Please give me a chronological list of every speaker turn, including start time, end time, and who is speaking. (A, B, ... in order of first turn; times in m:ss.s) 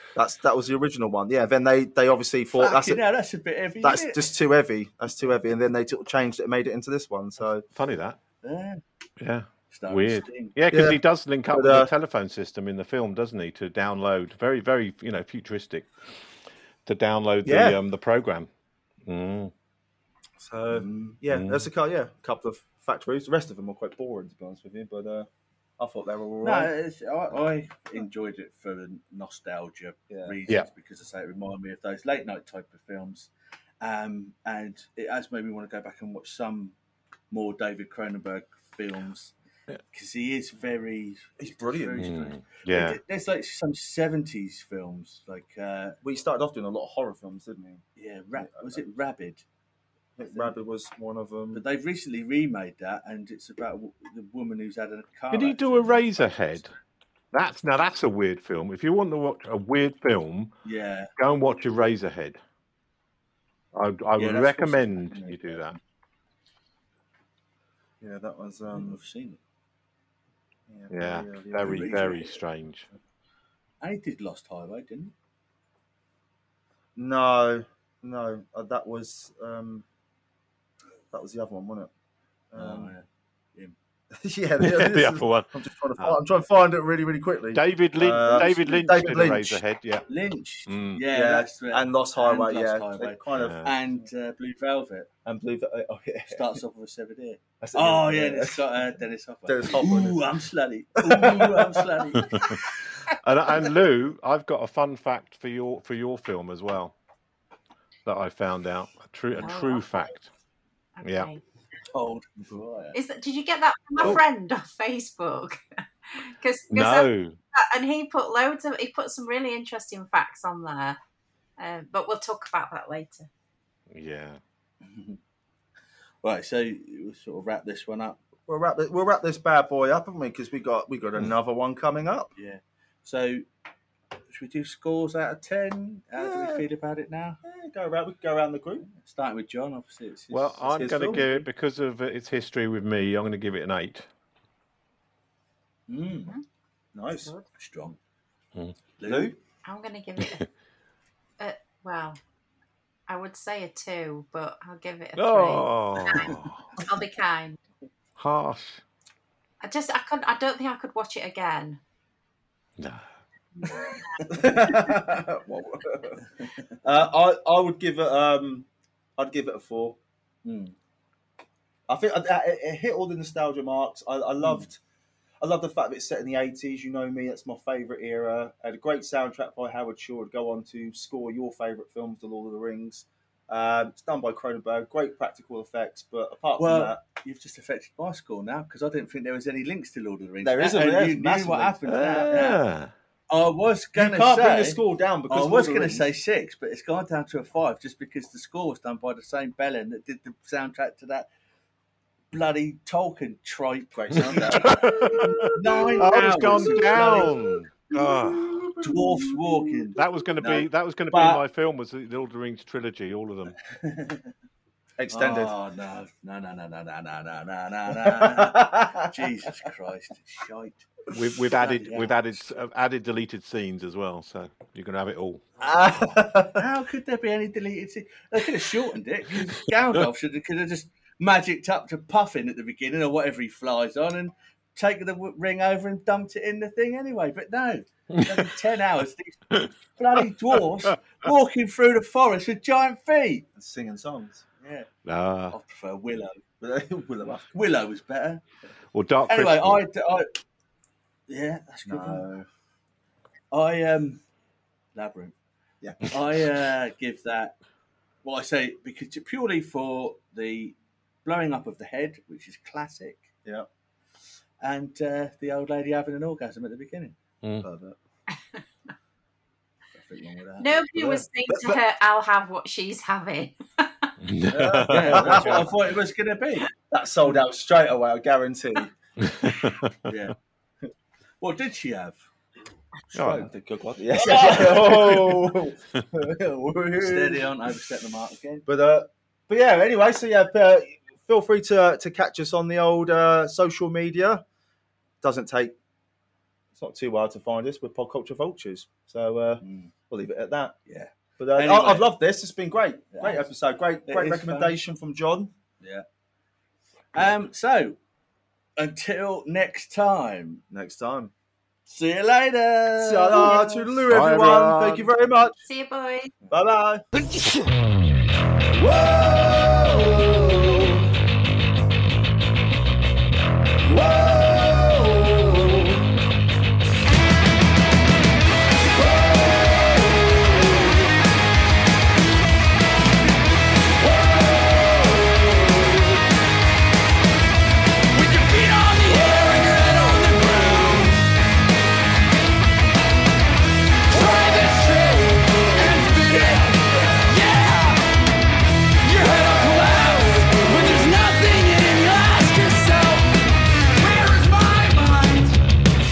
0:00.1-0:03.0 A
0:02.5-0:04.3 B
0:03.8-0:07.6 A
0:07.7-0:08.2 C
0:08.4-0:08.8 B
0:09.2-0:15.9 C
0:09.7-0:10.6 B
0:10.7-0:11.9 A
0:16.8-0:18.5 C
0:17.4-0:17.8 A
0:19.0-0:19.5 C
0:20.5-0:26.7 A
0:21.3-0:21.6 C
0:26.4-0:33.3 B
0:30.1-0:30.4 A
0:33.8-0:36.7 B
0:37.3-0:39.3 B
0:39.9-0:46.0 B
0:41.4-0:42.1 A
0:42.0-0:43.0 C
0:46.0-0:47.8 A
0:48.0-0:49.4 B
0:48.3-0:48.8 A
0:50.2-0:51.6 A
0:50.3-0:50.5 B
0:51.5-0:56.7 B
0:55.3-0:56.7 C
0:57.3-1:00.5 C
1:00.6-1:01.1 B
1:01.2-1:02.4 C
1:03.7-1:05.8 C
1:04.2-1:05.6 B
1:08.0-1:09.0 A
1:08.7-1:09.4 B
1:10.7-1:12.1 A
1:10.9-1:12.9 C
1:11.6-1:12.4 B
1:13.8-1:15.1 B
1:17.0-1:19.8 A
1:21.1-1:21.9 A
1:22.5-1:22.9 A
1:22.5-1:23.7 B
1:24.1-1:29.6 A
1:24.6-1:26.2 C
1:27.5-1:30.0 C
1:28.0-1:29.3 B
1:30.1-1:35.1 B
1:30.7-1:31.0 C
1:31.1-1:34.0 A
1:33.3-1:33.7 C
1:35.2-1:36.6 A
1:36.3-1:42.6 B
1:37.6-1:38.8 A
1:39.4-1:40.3 A
1:41.0-1:42.0 A
1:42.2-1:42.6 C
1:43.2-1:46.9 C
1:48.0-1:50.3 C
1:49.3-1:50.0 D
1:51.0-1:51.4 D
1:51.0-1:51.3 C
1:51.9-1:53.0 B
1:52.9-1:55.6 D
1:56.1-2:01.0 D
1:56.7-1:57.4 C
2:01.6-2:03.3 D
2:03.9-2:04.4 C
2:04.8-2:05.2 B
2:06.2-2:08.2 B
2:08.5-2:12.3 A
2:12.4-2:13.4 B
2:14.3-2:17.4 B
2:16.2-2:16.6 A
2:17.4-2:18.9 A
2:19.0-2:21.4 B
2:20.3-2:24.1 C
2:20.7-2:21.2 A
2:25.9-2:26.3 B
2:26.9-2:27.3 A
2:27.6-2:28.0 B
2:29.0-2:29.3 B
2:29.0-2:29.4 A
2:29.6-2:30.4 D
2:31.4-2:32.2 D
2:33.1-2:37.6 D
2:35.2-2:36.7 C
2:38.2-2:38.8 C
2:39.6-2:41.8 D
2:42.8-2:43.1 C
2:43.6-2:44.9 D
2:44.3-2:46.2 A
2:46.4-2:46.7 B
2:46.8-2:50.0 A
2:50.4-2:50.7 B
2:51.9-2:54.8 A
2:54.4-2:54.7 B
2:55.4-3:07.0 A
3:06.6-3:12.6 B
3:10.4-3:12.4 A
3:11.8-3:12.9 C
3:13.3-3:21.3 B
3:13.9-3:16.1 A
3:22.3-3:27.6 B
3:23.9-3:27.3 A
3:24.1-3:28.7 C
3:27.9-3:29.9 A
3:28.8-3:30.6 B
3:30.0-3:33.6 C
3:31.1-3:31.4 A
3:33.7-3:34.3 B
3:35.0-3:35.6 A
3:35.1-3:40.9 B
3:37.9-3:39.1 A
3:41.1-3:45.4 C
3:41.5-3:42.5 B
3:45.6-3:46.6 A
3:46.5-4:03.4 B
4:03.5-4:04.4 A
4:04.6-4:04.9 B
4:05.0-4:05.6 C
4:05.5-4:06.4 B
4:06.6-4:07.6 A
4:07.5-4:08.4 B
4:08.9-4:09.8 C
4:09.3-4:10.3 B
4:11.3-4:12.2 B
4:11.8-4:12.5 A
4:13.5-4:14.2 B
4:14.9-4:15.3 B
4:15.8-4:16.1 A
4:16.0-4:17.5 B
4:18.2-4:23.3 B
4:24.6-4:27.1 B
4:27.6-4:28.0 A
4:29.9-4:30.7 B
4:30.6-4:34.1 D
4:31.0-4:31.8 A
4:34.2-4:35.7 C
4:34.5-4:35.7 A
4:34.9-4:36.7 B
4:36.8-4:38.9 A
4:39.2-4:39.9 C
4:40.0-4:40.3 B
4:41.4-4:42.2 B
4:43.1-4:43.4 B
4:43.1-4:43.5 C
4:43.2-4:47.5 A
4:44.1-4:45.3 B
4:44.8-4:45.4 C
4:47.0-4:48.6 B
4:48.6-4:54.4 A
4:55.2-4:55.7 A
4:56.7-5:00.8 A
4:59.6-4:59.9 B
5:00.9-5:02.1 B
5:01.4-5:05.5 A
5:03.1-5:03.5 B
5:04.1-5:04.8 B
5:07.1-5:08.0 B
5:08.8-5:10.6 B
5:10.7-5:11.3 A
5:11.9-5:14.0 B
5:13.0-5:15.6 A
5:14.1-5:15.1 C
5:15.6-5:16.3 D
5:16.5-5:17.0 A
5:18.7-5:21.0 E
5:23.8-5:26.0 E
5:28.9-5:31.0 E
5:34.0-5:36.0 E
5:38.1-5:41.3 E
5:44.1-5:48.1 E
5:49.0-5:55.6 E